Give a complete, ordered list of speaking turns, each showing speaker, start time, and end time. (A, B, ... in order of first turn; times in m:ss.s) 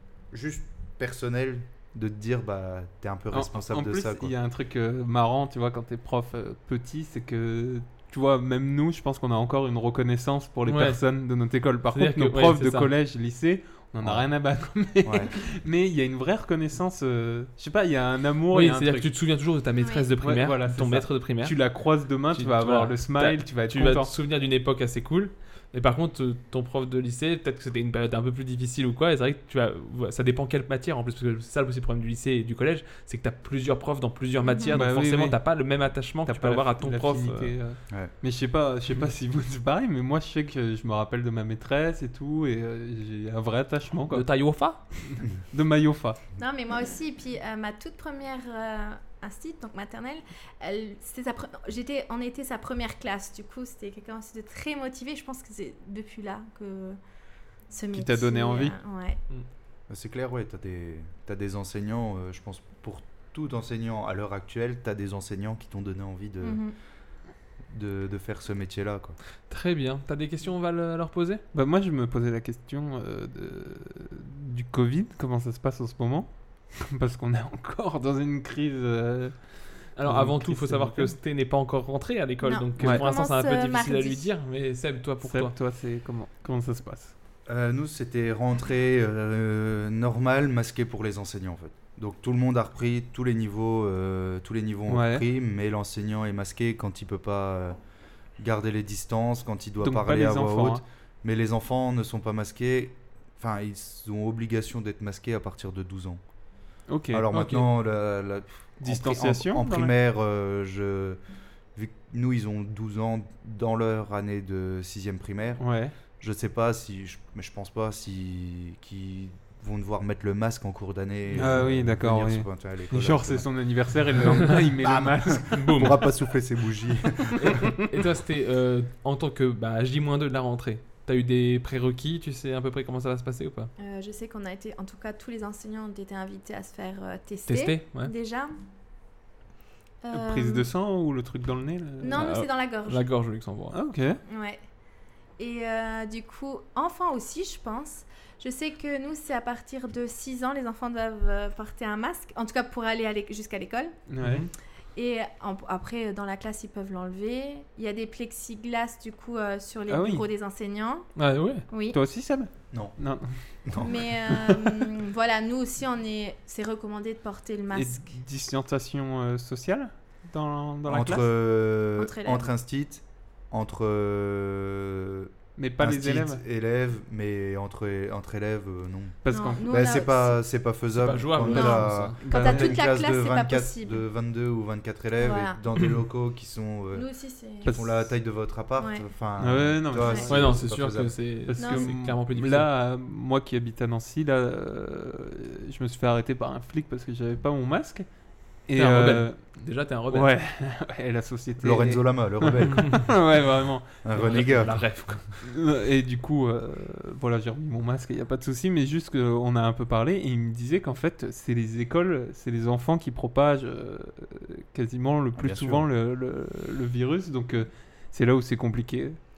0:00.3-0:04.3 A
0:03.3-0:19.1 B
0:10.7-0:11.0 C
0:11.9-0:12.9 C
0:14.0-0:14.3 A
0:15.0-0:15.3 A
0:18.5-0:21.6 C
0:19.8-0:20.1 D
0:20.2-0:24.1 B
0:22.3-0:37.6 C
0:34.5-0:34.8 D
0:34.7-0:35.4 B
0:36.3-0:44.3 B
0:44.1-0:44.8 C
0:45.2-0:46.2 B
0:46.4-0:57.0 D
0:57.7-0:59.2 D
0:57.9-0:58.8 B
0:59.9-1:06.6 A
1:06.4-1:06.7 D
1:07.7-1:09.2 A
1:09.5-1:11.4 C
1:11.5-1:21.2 B
1:20.0-1:25.5 C
1:22.4-1:24.3 D
1:22.8-1:23.0 B
1:25.2-1:27.1 B
1:27.5-1:37.8 A
1:34.9-1:35.2 B
1:38.4-1:46.2 A
1:39.8-1:40.8 B
1:46.9-1:47.3 B
1:47.1-1:51.2 A
1:47.3-1:47.6 C
1:48.8-1:50.0 B
1:51.8-1:55.6 A
1:55.6-1:55.9 B
1:56.2-2:03.5 A
2:01.3-2:05.9 B
2:04.8-2:07.7 A
2:05.5-2:06.0 C
2:07.4-2:13.7 C
2:13.8-2:18.5 D
2:17.5-2:18.1 C
2:20.0-2:20.6 D
2:20.1-2:22.3 B
2:22.0-2:23.0 D
2:22.2-2:23.8 C
2:23.7-2:24.2 B
2:24.3-2:24.6 D
2:25.4-2:34.0 D
2:34.1-2:34.4 B
2:34.2-2:34.5 C
2:35.0-2:41.1 D
2:39.9-2:40.2 B
2:41.2-2:41.6 C
2:41.7-2:42.0 D
2:41.9-2:43.3 B
2:43.7-2:44.1 A
2:43.8-2:48.0 D
2:44.3-2:44.8 B
2:47.7-2:51.3 B
2:50.9-3:07.1 A
2:52.0-2:52.5 D
2:55.6-2:56.4 B
2:59.2-2:59.9 B
2:59.3-3:00.4 D
3:01.0-3:02.2 C
3:01.5-3:04.0 D
3:02.2-3:02.9 B
3:05.2-3:05.6 D
3:06.9-3:07.7 D
3:07.6-3:07.9 B
3:07.6-3:11.2 A
3:08.8-3:09.0 D
3:09.4-3:10.6 B
3:10.3-3:12.7 C
3:11.5-3:18.1 B
3:11.6-3:12.0 D
3:18.7-3:19.4 B
3:18.8-3:20.3 C
3:20.1-3:24.8 B
3:21.6-3:23.2 A
3:24.0-3:24.8 A
3:24.2-3:25.3 C
3:25.4-3:39.2 B
3:35.4-3:35.8 A